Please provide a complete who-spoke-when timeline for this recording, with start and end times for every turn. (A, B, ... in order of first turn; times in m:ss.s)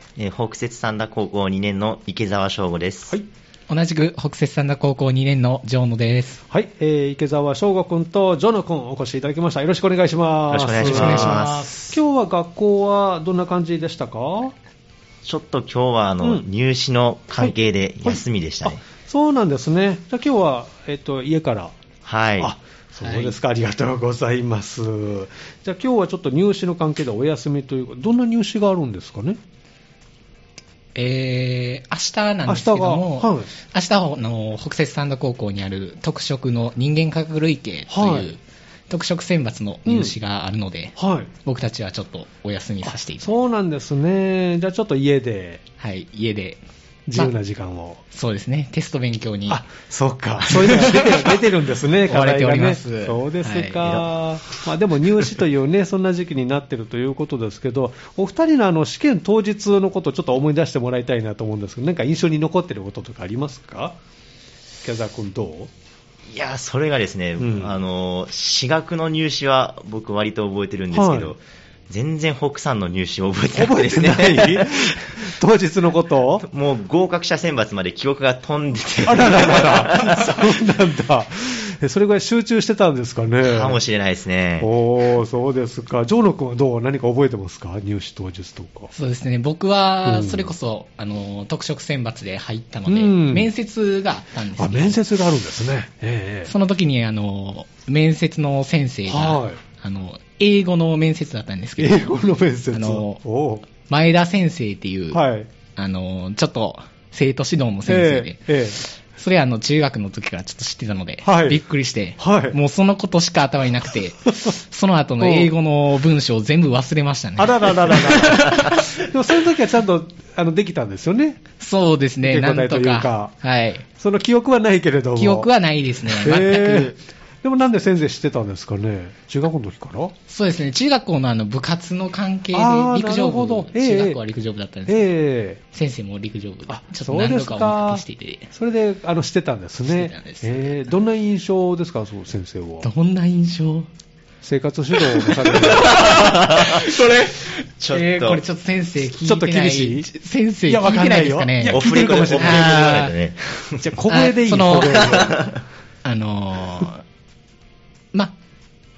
0:00.2-0:03.2 A
0:03.7-0:06.4 B
0:06.5-0:14.6 C
0:10.5-0:11.8 A
0:10.8-0:12.0 B
0:15.2-0:18.8 A
0:17.4-0:21.7 C
0:22.0-0:22.5 A
0:22.4-0:29.4 C
0:23.0-0:23.3 B
0:31.0-0:43.3 B
0:32.5-0:33.5 C
0:37.9-0:38.3 C
0:39.8-0:40.1 C
0:41.0-0:41.3 C
0:42.8-0:45.6 C
0:45.8-0:46.6 B
0:47.1-0:48.0 C
0:48.1-0:49.6 B
0:49.5-1:04.0 C
0:50.4-0:51.4 B
0:52.1-0:53.9 B
0:53.8-0:54.1 A
1:04.8-1:05.7 C
1:06.3-1:15.2 A
1:07.4-1:07.8 C
1:10.9-1:11.3 C
1:13.5-1:16.4 C
1:16.4-1:20.6 A
1:19.0-1:23.8 C
1:23.4-1:24.7 A
1:24.6-1:28.9 C
1:28.9-1:35.0 B
1:30.0-1:30.5 C
1:32.9-1:33.5 C
1:34.6-1:36.5 C
1:36.4-1:42.2 B
1:39.1-1:39.6 C
1:41.8-1:43.6 C
1:42.7-1:43.2 B
1:43.8-1:45.2 B
1:45.1-1:45.5 C
1:45.8-1:59.0 B
1:47.9-1:48.8 C
1:51.2-1:51.6 C
1:52.2-1:52.6 C
1:55.2-1:55.5 C
1:57.4-2:01.4 C
2:01.6-2:03.8 B
2:02.2-2:03.3 C
2:03.9-2:05.5 C
2:05.2-2:06.9 B
2:06.0-2:10.2 C
2:10.3-2:15.1 B
2:12.5-2:14.2 C
2:14.9-2:15.6 C
2:15.7-2:18.5 B
2:16.7-2:22.9 C
2:19.9-2:20.8 B
2:22.8-2:23.9 B
2:24.4-2:26.2 C
2:25.0-2:33.1 B
2:26.0-2:26.9 A
2:27.8-2:28.4 A
2:29.2-2:30.1 C
2:30.7-2:33.1 C
2:31.7-2:33.9 A
2:33.8-2:35.5 C
2:34.1-2:35.3 B
2:34.8-2:35.6 A
2:36.0-2:37.0 B